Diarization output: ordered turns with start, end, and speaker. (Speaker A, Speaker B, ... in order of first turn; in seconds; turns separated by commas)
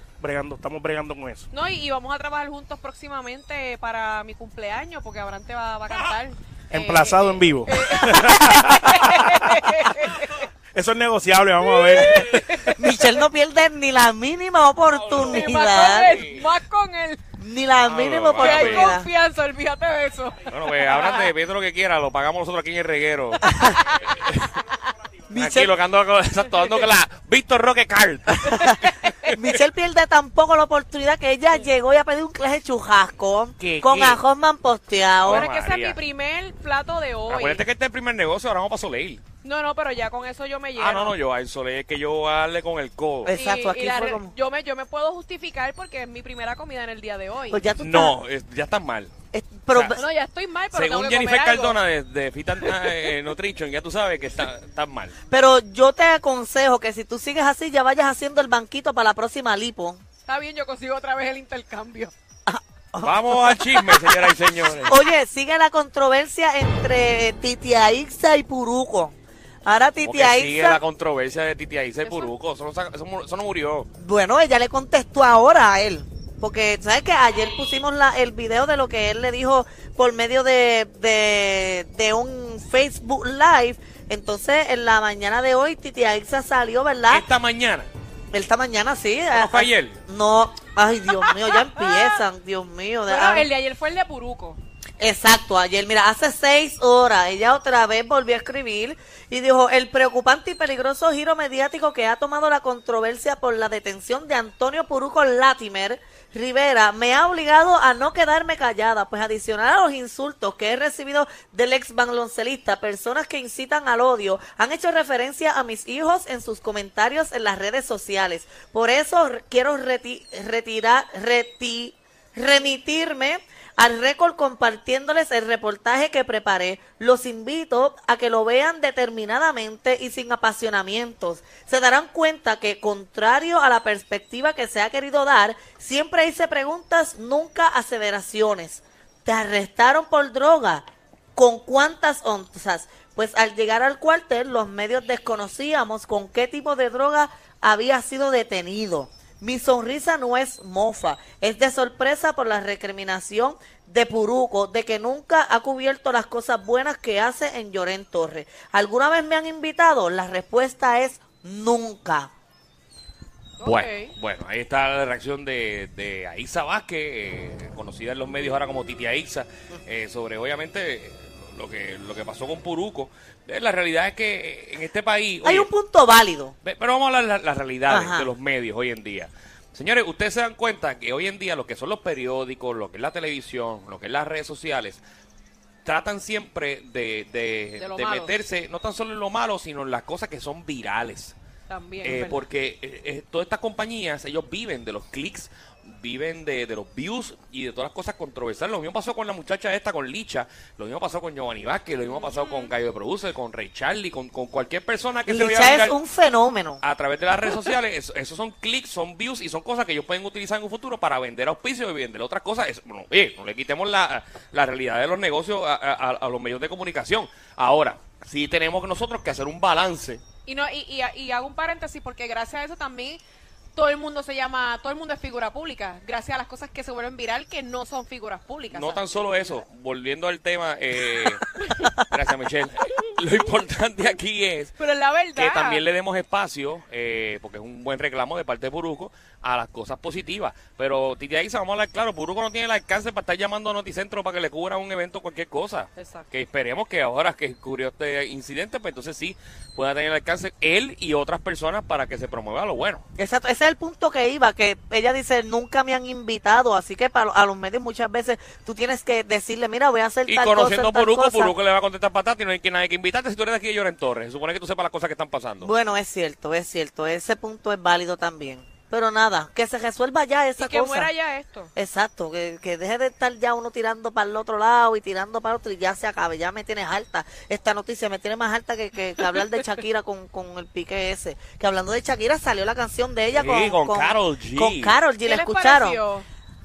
Speaker A: 0.2-1.5, Speaker B: 1.5-10.4, Speaker A: 6.7-9.7, Speaker A: 10.7-12.8, Speaker B: 11.6-13.2, Speaker C: 12.2-16.2, Speaker D: 14.8-16.5, Speaker B: 15.1-17.2, Speaker C: 17.4-19.1, Speaker D: 17.8-18.9, Speaker B: 18.4-21.3, Speaker D: 20.5-23.4, Speaker C: 23.4-23.7, Speaker B: 23.5-24.1, Speaker D: 24.0-24.6, Speaker C: 25.3-25.7, Speaker D: 25.3-28.8, Speaker B: 28.5-29.3, Speaker C: 29.3-35.5, Speaker D: 33.6-34.2, Speaker D: 35.2-36.0, Speaker B: 35.3-37.6, Speaker D: 37.3-39.2, Speaker B: 39.4-41.2, Speaker D: 40.8-43.4, Speaker C: 43.2-44.3, Speaker B: 43.3-47.6, Speaker C: 47.5-48.2, Speaker D: 47.8-49.1, Speaker C: 49.3-50.0, Speaker D: 49.7-50.0, Speaker B: 49.9-51.8, Speaker D: 50.7-55.1, Speaker C: 55.3-60.0, Speaker B: 60.2-62.1, Speaker C: 62.5-69.1, Speaker D: 63.0-65.0, Speaker C: 69.7-70.8, Speaker D: 70.0-73.9, Speaker B: 72.0-72.3, Speaker C: 74.0-87.3, Speaker D: 87.1-87.9, Speaker C: 88.3-93.5, Speaker D: 89.3-90.0, Speaker B: 91.2-92.1, Speaker B: 93.1-94.6, Speaker C: 95.0-162.3, Speaker B: 163.6-164.1, Speaker D: 163.6-175.7, Speaker C: 175.4-176.6, Speaker D: 176.6-185.0, Speaker C: 177.9-178.3, Speaker D: 185.8-191.3, Speaker B: 187.8-188.4, Speaker B: 191.7-192.4, Speaker D: 192.0-206.0, Speaker B: 202.0-202.7, Speaker C: 205.2-206.8, Speaker D: 206.8-220.2, Speaker B: 220.4-223.2, Speaker B: 223.8-229.0, Speaker D: 228.7-234.7, Speaker B: 234.8-235.8, Speaker D: 235.3-253.0, Speaker B: 245.9-246.3, Speaker C: 253.2-261.6, Speaker D: 260.2-265.7, Speaker C: 265.6-271.1, Speaker B: 270.6-271.7, Speaker C: 271.7-286.0, Speaker D: 283.3-285.1, Speaker B: 285.2-286.2